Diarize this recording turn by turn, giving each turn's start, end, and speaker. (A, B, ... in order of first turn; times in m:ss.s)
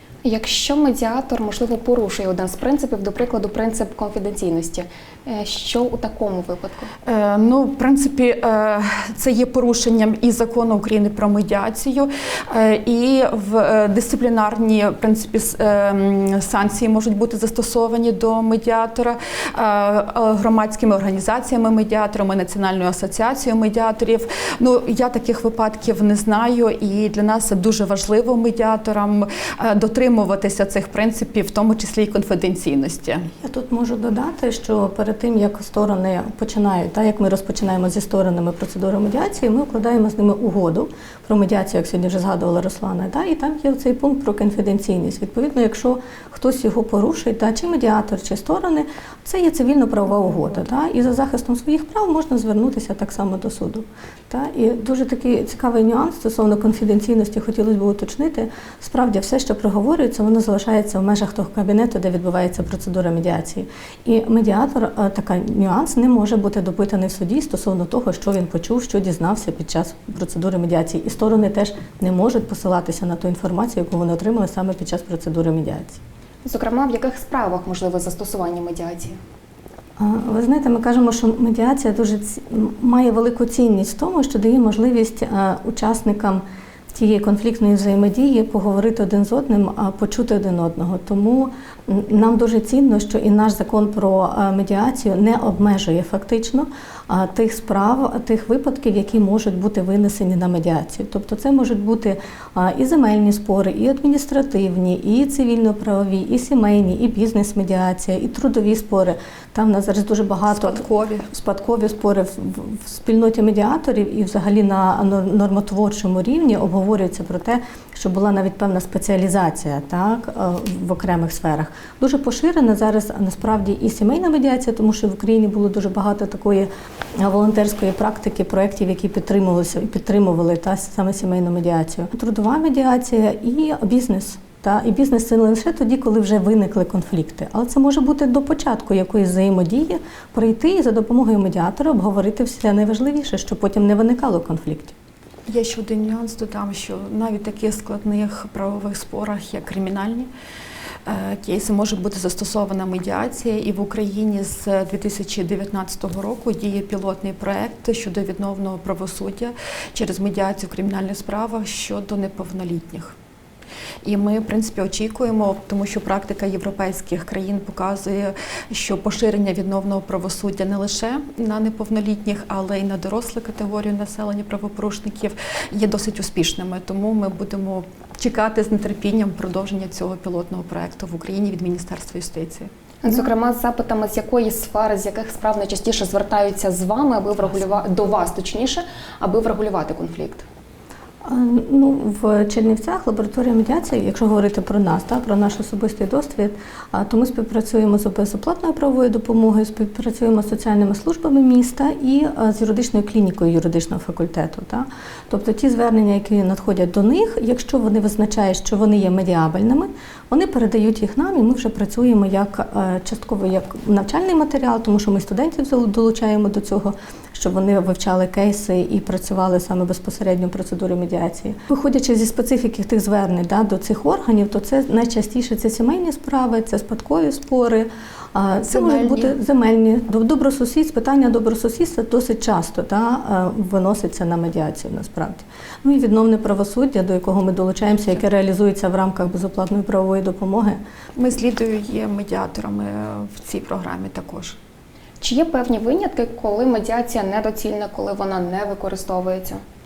0:00.2-0:06.9 A
0:07.0-0:33.3 B
0:33.4-1:16.0 C
1:16.4-1:19.2 A
1:20.0-2:24.9 C
1:50.5-1:51.3 B
2:25.5-2:30.3 B
2:31.0-2:43.1 B
2:44.0-3:02.7 B
3:03.0-3:10.5 A
3:11.2-4:00.8 C
3:48.6-3:49.4 B
4:01.2-4:04.6 B
4:05.2-4:09.6 A